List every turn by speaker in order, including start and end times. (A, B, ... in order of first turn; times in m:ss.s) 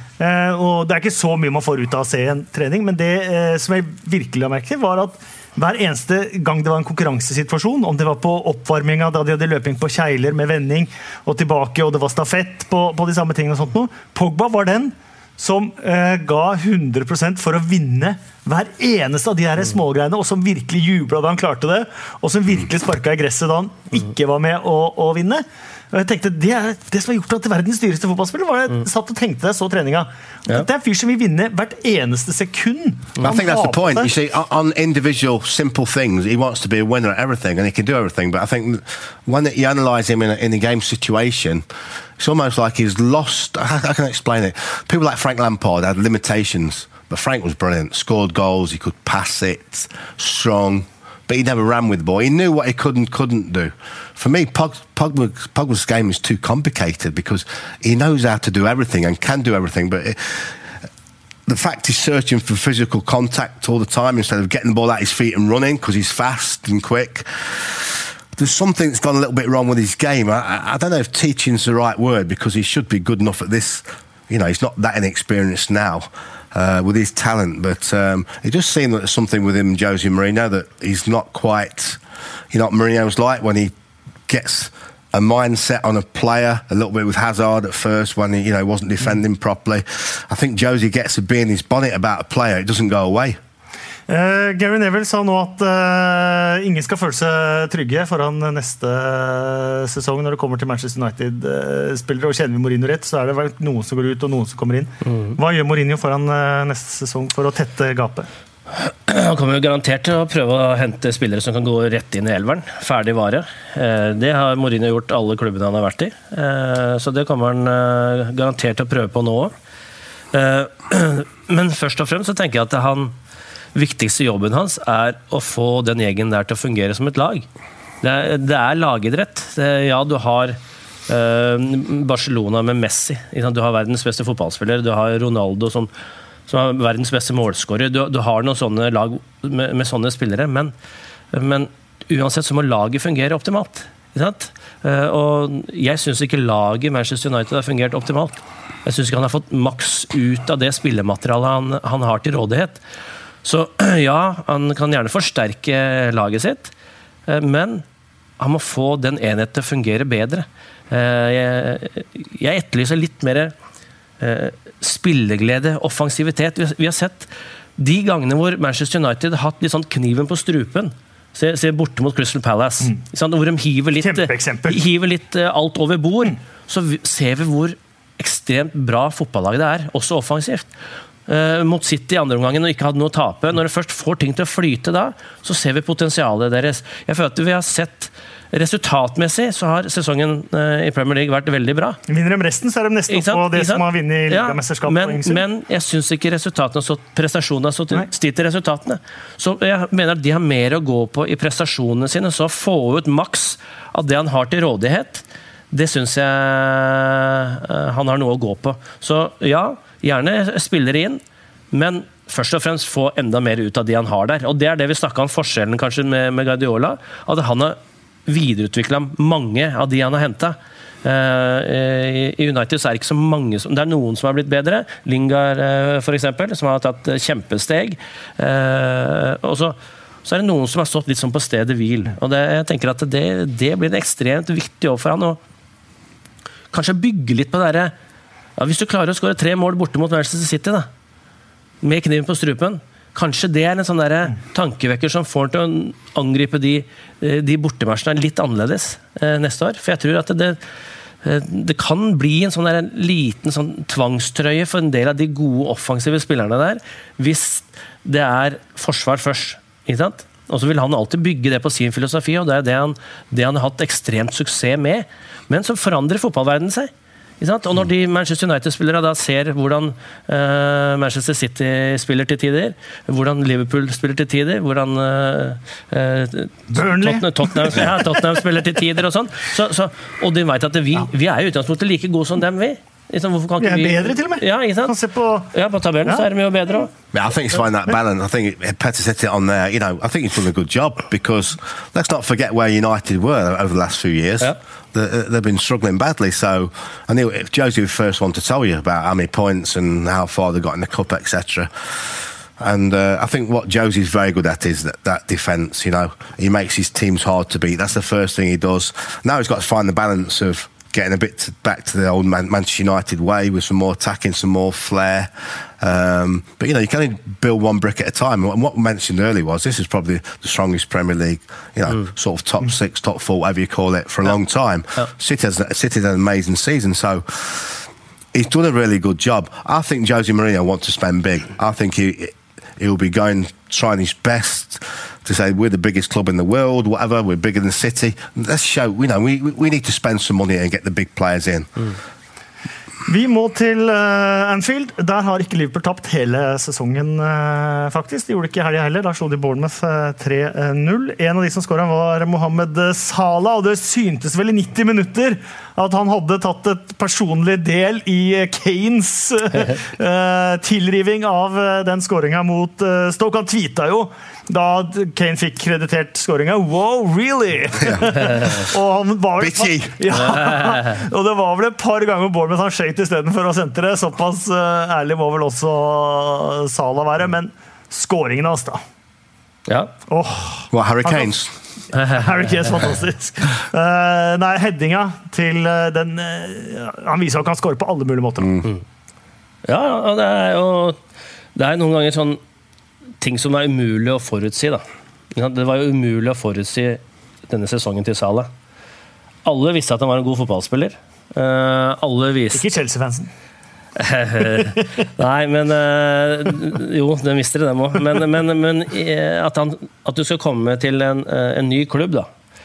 0:00.2-0:34.1 A
0:33.2-0:41.6 B
0:42.2-1:00.6 B
1:01.5-1:22.0 B
1:22.5-1:23.7 B
1:24.3-1:33.4 B
1:34.1-1:48.3 A
1:48.8-1:59.5 C
2:00.3-2:03.2 C
2:03.8-2:07.5 C
2:08.0-2:15.9 C
2:16.5-2:20.7 C
2:21.3-2:32.8 C
2:33.4-2:36.7 C
2:37.3-2:37.8 C
2:38.4-2:43.5 C
2:44.2-3:00.7 C
2:54.0-2:54.8 A
3:01.3-3:12.0 C
3:12.1-3:15.4 A
3:13.1-3:31.2 C
3:31.7-3:55.4 C
3:56.7-3:57.9 C
3:58.6-4:00.9 C
4:01.8-4:10.6 C
4:11.2-4:44.9 C
4:36.7-4:38.1 A
4:43.6-4:45.5 A
4:45.5-4:46.9 C
4:47.1-5:41.9 B
5:43.1-6:18.8 A
6:09.4-6:10.1 B
6:10.3-6:10.8 C
6:20.1-6:21.4 A
6:20.7-6:21.5 B
6:21.9-6:22.2 C
6:22.0-6:28.7 A
6:29.6-6:31.0 C
6:31.6-6:32.4 C
6:33.2-6:38.5 C
6:39.4-6:42.6 C
6:42.5-6:43.3 A
6:44.0-6:52.3 C